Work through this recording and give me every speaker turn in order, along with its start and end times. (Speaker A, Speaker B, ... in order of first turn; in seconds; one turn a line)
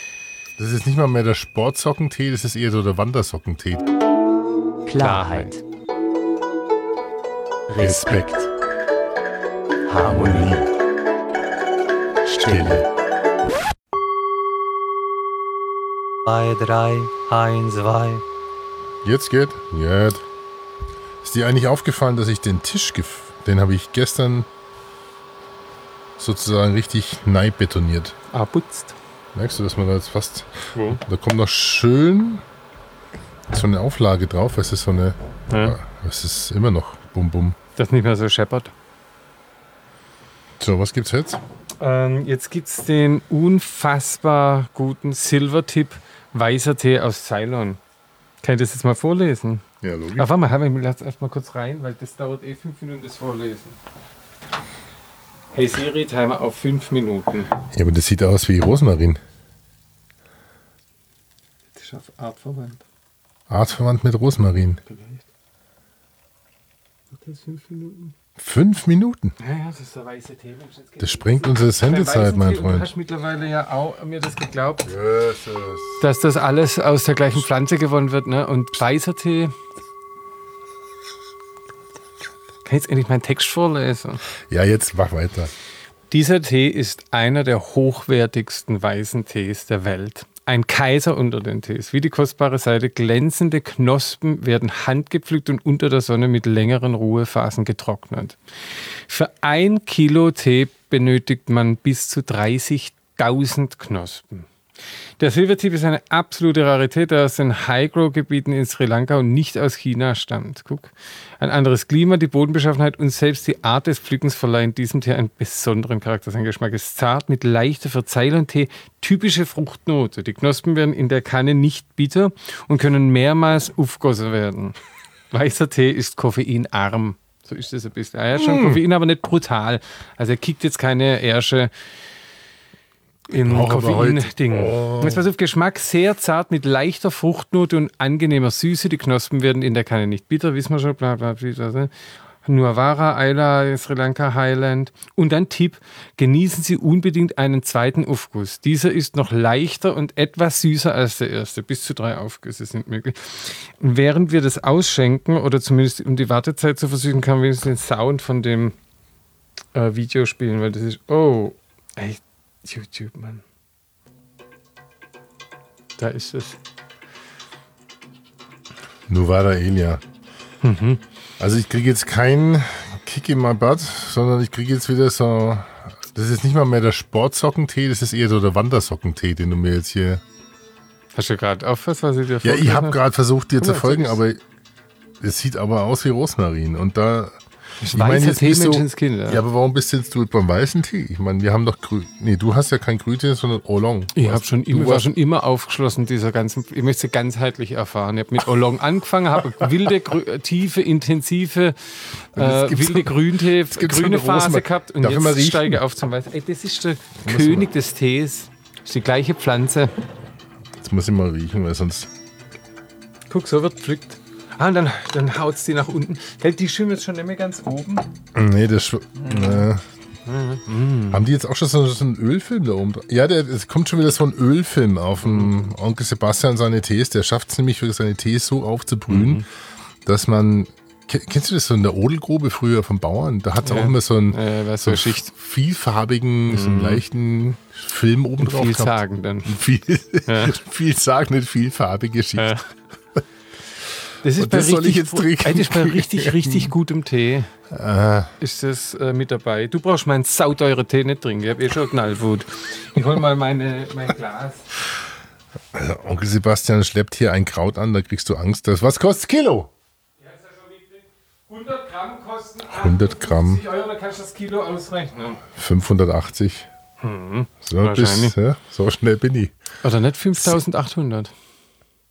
Speaker A: 0.6-3.9
Speaker B: 4.8-5.6
Speaker C: 5.0-5.5
Speaker B: 7.7-8.5
Speaker A: 7.8-8.5
Speaker B: 9.9-10.7
Speaker B: 12.3-12.8
Speaker A: 12.4-12.9
Speaker B: 16.2-18.2
Speaker A: 19.0-20.2
Speaker A: 21.2-24.5
Speaker A: 26.2-28.1
Speaker C: 28.3-29.0
Speaker A: 29.3-32.4
Speaker C: 30.7-31.0
Speaker A: 33.5-37.6
Speaker C: 35.5-35.8
Speaker C: 37.8-38.7
Speaker A: 40.6-41.4
Speaker C: 41.8-47.8
Speaker C: 48.4-49.6
Speaker A: 49.8-50.3
Speaker C: 50.1-53.8
Speaker C: 55.5-57.5
Speaker A: 57.7-59.2
Speaker C: 61.7-62.8
Speaker A: 63.5-64.8
Speaker C: 64.8-65.2
Speaker C: 67.1-68.1
Speaker A: 68.4-69.3
Speaker C: 69.4-74.9
Speaker A: 71.0-72.9
Speaker A: 74.8-76.1
Speaker C: 76.0-79.5
Speaker C: 82.6-84.2
Speaker A: 84.5-85.5
Speaker C: 86.1-98.4
Speaker C: 99.1-104.5
Speaker C: 105.2-124.8
Speaker C: 125.3-131.7
Speaker A: 128.3-128.8
Speaker C: 133.3-141.9
Speaker A: 133.3-135.2
Speaker C: 142.4-158.7
Speaker C: 159.7-163.4
Speaker C: 166.0-166.6
Speaker A: 169.1-170.0
Speaker C: 170.6-171.0
Speaker A: 171.4-180.2
Speaker C: 181.1-183.0
Speaker A: 182.4-184.4
Speaker C: 183.6-184.2
Speaker A: 185.2-187.4
Speaker C: 187.8-189.4
Speaker A: 187.9-195.1
Speaker C: 194.1-209.9
Speaker A: 202.3-205.8
Speaker A: 207.2-207.7
Speaker A: 210.8-212.1
Speaker C: 213.3-218.1
Speaker A: 218.3-219.8
Speaker C: 219.2-219.7
Speaker C: 220.2-221.2
Speaker A: 221.1-229.4
Speaker C: 225.2-225.7
Speaker C: 229.1-229.4
Speaker A: 230.0-242.6
Speaker C: 233.6-235.3
Speaker C: 236.5-237.0
Speaker C: 238.4-239.6
Speaker C: 240.3-240.6
Speaker C: 242.4-242.7
Speaker C: 244.2-247.5
Speaker A: 244.4-246.7
Speaker A: 247.7-248.3
Speaker C: 248.4-254.7
Speaker A: 255.7-259.7
Speaker C: 260.2-265.4
Speaker A: 262.6-263.6
Speaker A: 265.5-266.7
Speaker C: 267.0-268.4
Speaker A: 267.6-269.5
Speaker C: 269.8-271.3